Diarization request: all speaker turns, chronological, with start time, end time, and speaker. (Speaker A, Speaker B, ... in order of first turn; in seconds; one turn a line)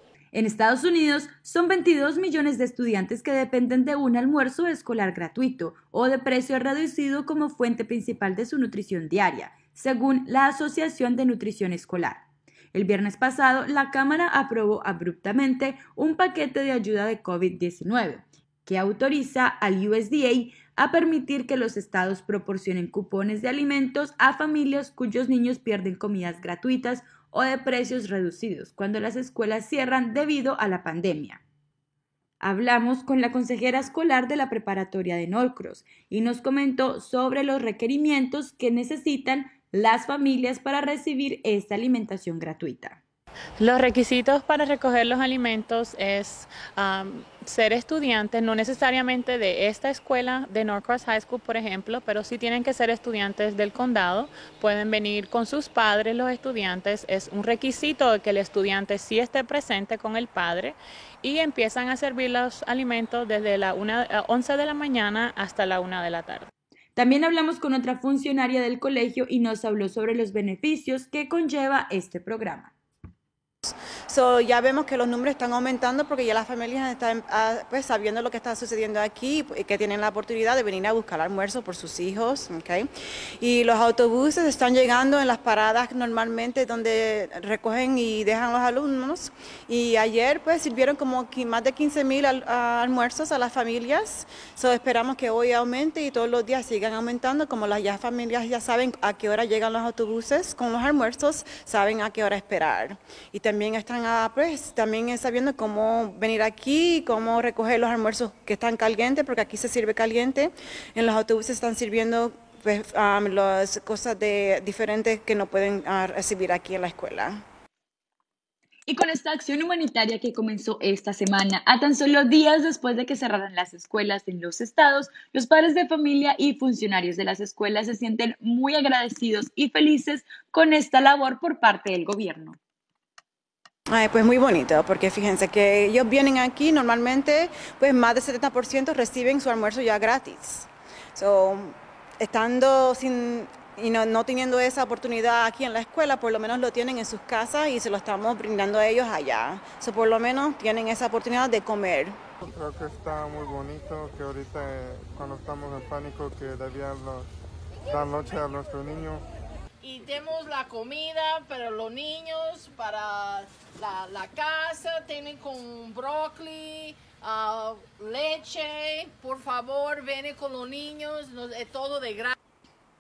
Speaker A: 0.3-12.2
Speaker A: 12.7-31.4
Speaker A: 32.4-43.0
Speaker B: 43.6-66.5
Speaker A: 67.0-72.7
Speaker C: 73.6-82.9
Speaker C: 83.4-117.4
Speaker A: 118.9-132.6
Speaker C: 133.9-152.2
Speaker D: 152.4-157.3
Speaker D: 157.9-159.2
Speaker E: 159.8-172.4